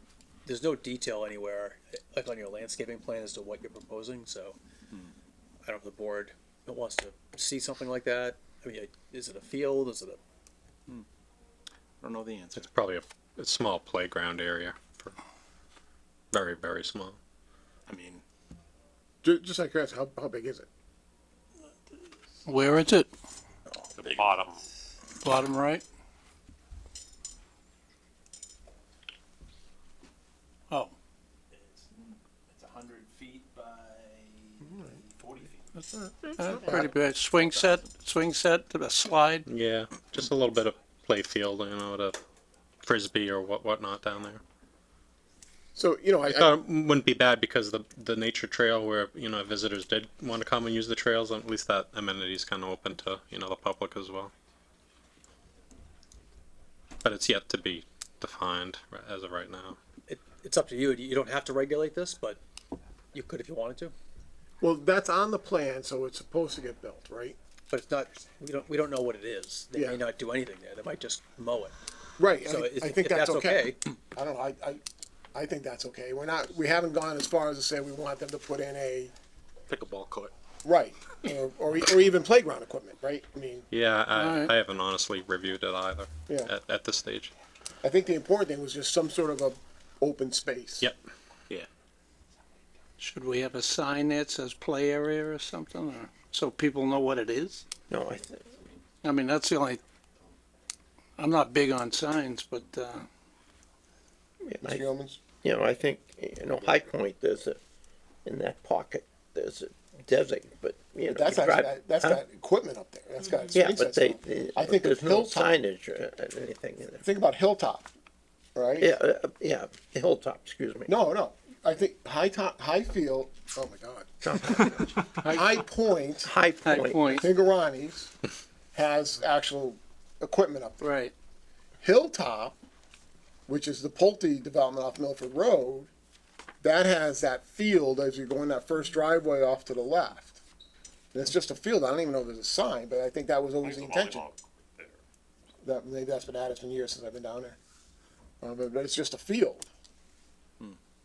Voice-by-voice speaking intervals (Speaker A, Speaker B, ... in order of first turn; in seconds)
Speaker A: 0.4-4.6, 5.6-10.2, 60.1-62.4, 63.1-63.9, 67.7-71.7, 72.4-73.8
Speaker B: 12.0-12.7, 17.9-18.2, 23.7-24.5, 31.5-35.7, 36.5-37.9, 79.7-80.3
Speaker C: 12.6-15.1, 16.3-17.2, 39.5-42.2, 42.8-44.4, 46.3-54.3, 57.0-59.8, 83.7-87.3
Speaker D: 19.2-20.7, 34.6-35.0, 35.9-36.9, 45.7-46.6, 64.6-67.4, 69.7-70.0, 72.2-74.8, 75.3-79.1, 80.6-83.7, 87.8-90.9, 104.6-105.2, 111.1-115.6, 117.0-117.9, 118.5-118.9, 120.9-126.3, 127.0-128.1, 128.7-131.0, 131.8-132.6, 133.5-135.9, 136.6-140.4, 141.1-144.3, 145.6-147.6, 148.4-149.7
Speaker E: 22.4-23.1, 25.2-25.8, 36.4-39.5, 84.1-84.5, 93.0-97.6, 99.0-99.8, 101.2-103.1, 125.2-125.5, 126.7-127.3, 130.8-131.1
Speaker F: 24.0-24.6, 143.6-145.0
Speaker G: 97.9-98.5, 104.4-104.8, 105.4-107.6, 108.2-112.2, 113.5-117.0, 118.8-120.9, 124.2-125.2, 126.2-127.2